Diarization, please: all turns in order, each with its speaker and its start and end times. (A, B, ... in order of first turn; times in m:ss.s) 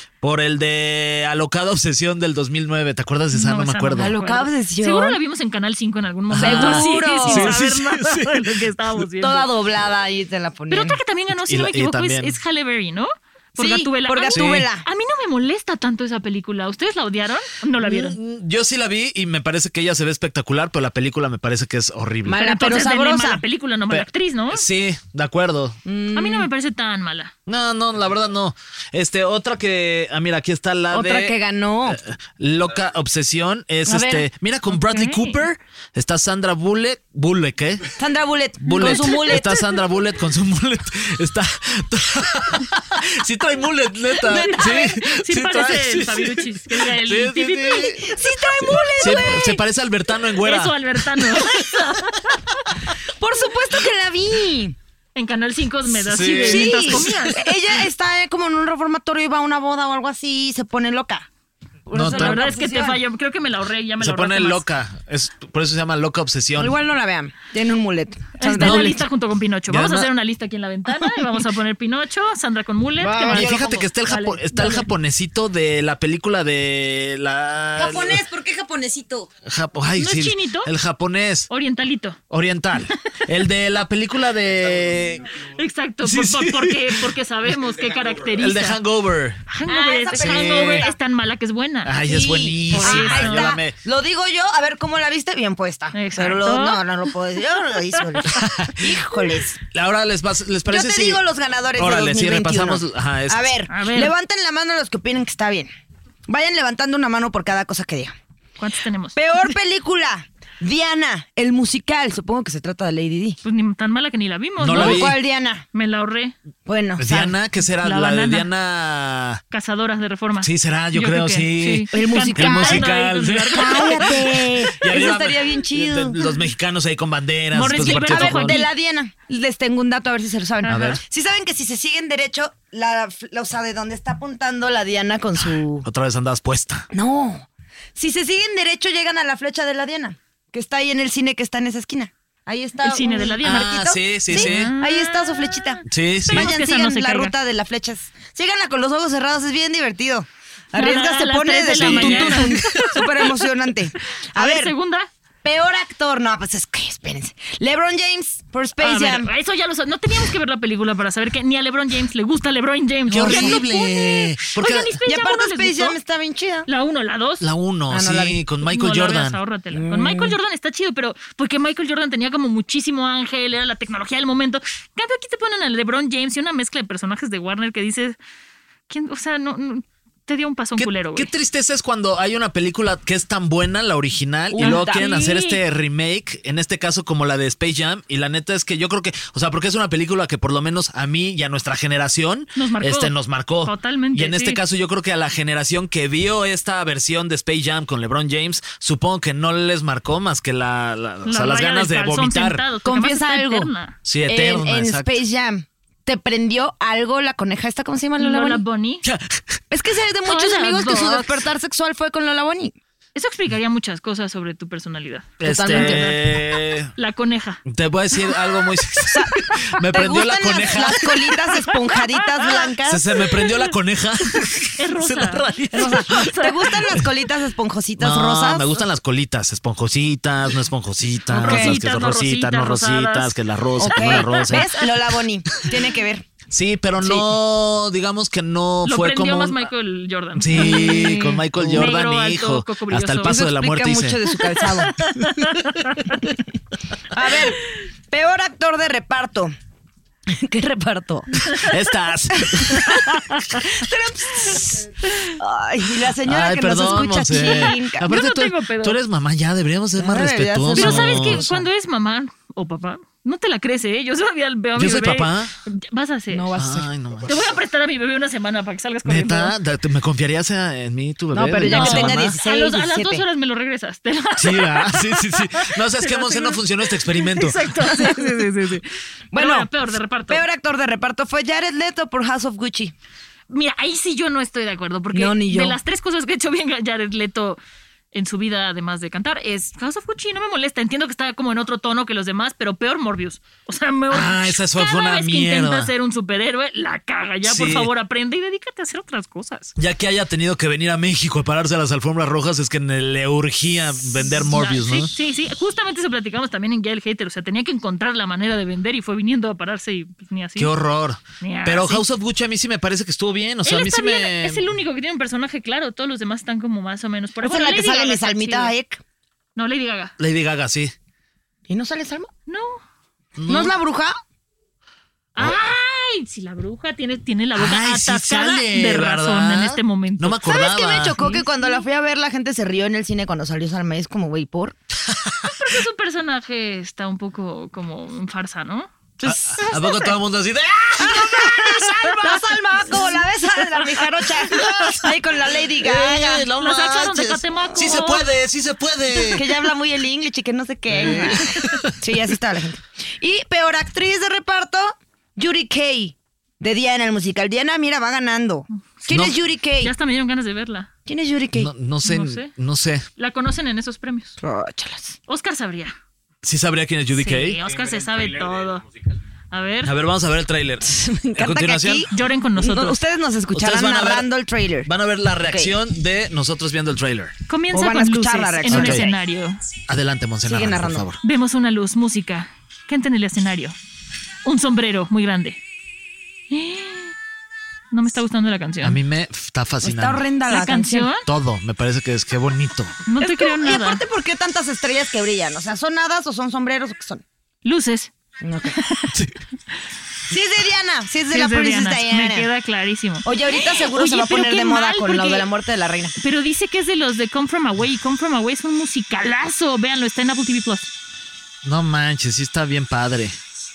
0:00.2-0:04.1 A
0:03.3-0:09.5 B
0:04.0-0:05.2 C
0:06.3-0:08.7 A
0:06.4-0:07.6 C
0:09.2-0:11.0 C
0:10.7-0:18.2 B
0:11.4-0:12.4 A
0:13.6-0:14.8 C
0:14.3-0:14.7 A
0:17.8-0:22.5 A
0:22.2-0:23.4 C
0:22.4-0:24.6 B
0:23.9-0:25.8 A
0:25.8-0:26.5 C
0:26.1-0:27.3 B
0:27.4-0:31.4 A
0:30.9-0:32.0 C
0:31.9-0:37.9 A
0:33.8-0:34.3 C
0:34.7-0:35.4 B
0:38.0-0:39.7 C
0:38.6-0:51.9 A
0:38.8-0:39.1 B
0:44.3-0:44.9 C
0:44.3-0:47.9 B
0:48.0-0:49.6 C
0:50.4-0:52.6 B
0:53.2-0:54.8 C
0:55.1-0:57.4 B
0:55.9-0:57.5 A
0:56.3-1:01.3 C
1:01.9-1:03.0 C
1:01.9-1:02.5 A
1:02.1-1:04.6 B
1:04.0-1:06.8 A
1:06.6-1:09.0 C
1:08.4-1:14.8 B
1:08.5-1:09.0 A
1:09.7-1:10.1 A
1:13.0-1:13.8 C
1:13.1-1:18.2 A
1:17.8-1:19.3 C
1:19.4-1:21.5 A
1:20.0-1:20.7 B
1:21.5-1:22.2 B
1:22.3-1:25.3 A
1:25.6-1:28.8 B
1:26.0-1:27.5 A
1:28.2-1:29.4 A
1:29.5-1:33.6 B
1:29.6-1:31.0 C
1:30.1-1:30.9 A
1:31.8-1:33.8 A
1:32.1-1:39.6 C
1:35.9-1:36.8 B
1:38.3-1:39.0 A
1:39.7-1:41.2 A
1:40.7-1:45.7 C
1:41.8-1:43.5 A
1:43.7-1:44.1 B
1:46.3-1:48.1 C
1:48.6-1:49.2 B
1:49.2-1:53.4 C
1:53.4-1:55.1 B
1:54.6-1:55.2 A
1:54.7-1:55.6 C
1:55.7-1:56.3 B
1:56.6-1:57.4 C
1:57.0-1:59.4 A
1:57.8-1:58.5 B
1:59.5-2:04.2 B
2:00.4-2:08.6 A
2:01.9-2:02.9 C
2:03.5-2:06.2 C
2:07.5-2:08.7 B
2:07.7-2:15.8 C
2:10.6-2:11.0 B
2:10.6-2:11.0 A
2:15.8-2:16.9 A
2:16.9-2:34.7 C
2:22.8-2:27.3 B
2:23.4-2:24.7 A
2:25.9-2:26.5 A
2:30.7-2:33.3 B
2:31.7-2:32.8 A
2:34.3-2:35.1 B
2:35.4-2:39.3 C
2:38.8-2:46.0 B
2:43.1-2:45.0 A
2:43.2-2:43.6 C
2:45.0-2:46.7 C
2:46.6-2:47.4 B
2:47.4-2:49.4 A
2:47.9-2:48.4 C
2:48.6-2:58.2 B
2:49.7-2:50.4 C
2:58.9-3:01.3 B
3:00.8-3:22.6 A
3:04.5-3:05.1 C
3:04.6-3:05.6 B
3:12.6-3:14.6 B
3:21.2-3:24.0 B
3:22.8-3:23.7 C
3:24.0-3:25.2 A
3:24.2-3:28.6 C
3:28.2-3:29.0 B
3:29.0-3:29.4 A
3:29.7-3:32.7 C
3:30.2-3:31.4 B
3:33.1-3:36.2 B
3:35.4-3:36.9 A
3:35.4-3:36.1 C
3:36.9-3:37.6 B
3:37.6-3:41.5 A
3:39.9-3:43.1 C
3:42.1-3:42.6 B
3:42.8-3:47.0 A
3:43.2-3:43.7 B
3:44.8-3:46.6 B
3:45.7-3:48.7 C
3:48.0-3:54.7 A
3:51.3-3:51.8 C
3:51.3-3:53.4 B
3:53.8-3:56.2 C
3:53.9-3:54.8 B
3:56.5-3:59.7 A
3:57.0-3:57.3 C
3:58.8-4:03.4 B
4:00.3-4:04.2 A
4:00.6-4:01.1 C
4:01.6-4:01.9 C
4:03.2-4:04.9 C
4:04.8-4:06.2 B
4:07.1-4:09.5 C
4:10.3-4:11.4 C
4:11.5-4:13.0 A
4:12.3-4:13.0 C
4:12.7-4:13.6 B
4:13.6-4:18.1 C
4:14.4-4:15.4 B
4:16.2-4:21.5 A
4:17.3-4:19.0 B
4:20.0-4:21.6 C
4:20.7-4:26.5 B
4:24.8-4:25.5 A
4:26.3-4:26.9 C
4:26.5-4:27.5 A
4:27.2-4:29.5 B
4:29.0-4:32.4 A
4:31.3-4:33.2 C
4:31.6-4:40.4 B
4:34.4-4:37.6 A
4:37.8-4:38.8 C
4:39.3-4:39.7 C
4:40.3-4:42.9 C
4:43.5-4:47.6 B
4:45.1-4:45.8 C
4:48.1-4:59.8 B
4:54.1-4:55.9 A
4:57.4-4:57.9 A
4:59.8-5:05.1 A
5:04.3-5:10.7 B
5:10.6-5:14.6 A
5:11.4-5:12.0 B
5:13.6-5:18.7 B
5:17.4-5:19.0 C
5:19.6-5:20.1 B
5:20.2-5:20.9 A
5:21.7-5:22.3 C
5:22.5-5:22.8 B
5:23.4-5:23.7 A
5:23.5-5:24.1 C
5:25.3-5:30.4 B
5:27.5-5:31.2 A
5:30.4-5:34.8 C
5:31.2-5:31.8 B
5:35.1-5:35.5 A
5:35.6-5:38.9 B
5:39.2-5:40.2 C
5:39.2-5:42.2 A
5:41.0-5:46.5 C
5:44.6-5:45.0 B
5:45.8-5:49.4 A
5:46.5-5:48.2 B
5:49.3-5:59.9 C
5:50.9-5:51.9 A
5:51.4-5:51.7 B
5:59.1-5:59.3 A
5:59.8-6:00.9 B
6:01.0-6:01.7 C
6:01.5-6:03.0 A
6:02.0-6:02.5 B
6:03.2-6:04.4 B
6:04.4-6:05.2 C
6:05.3-6:05.9 B
6:06.4-6:07.6 A
6:07.1-6:08.8 B
6:09.5-6:09.9 B
6:09.8-6:12.1 A
6:10.8-6:14.9 C
6:12.1-6:13.0 B
6:13.5-6:14.3 A
6:14.8-6:17.3 A
6:15.4-6:15.7 C
6:17.5-6:19.6 B
6:17.7-6:19.1 C
6:18.7-6:19.1 A
6:19.9-6:21.2 A
6:20.4-6:21.0 C
6:21.2-6:23.8 B
6:24.4-6:25.6 B
6:26.5-6:27.1 B
6:27.9-6:29.0 B
6:28.8-6:30.2 A
6:29.8-6:31.1 C
6:30.5-6:31.2 B
6:31.2-6:33.0 A
6:33.0-6:34.0 B
6:33.2-6:37.2 C
6:37.6-6:38.1 B
6:38.4-6:38.8 C
6:38.7-6:39.1 B
6:40.3-6:42.5 C
6:41.3-6:45.5 B
6:43.2-6:46.2 C
6:46.2-6:50.9 B
6:51.6-6:53.4 A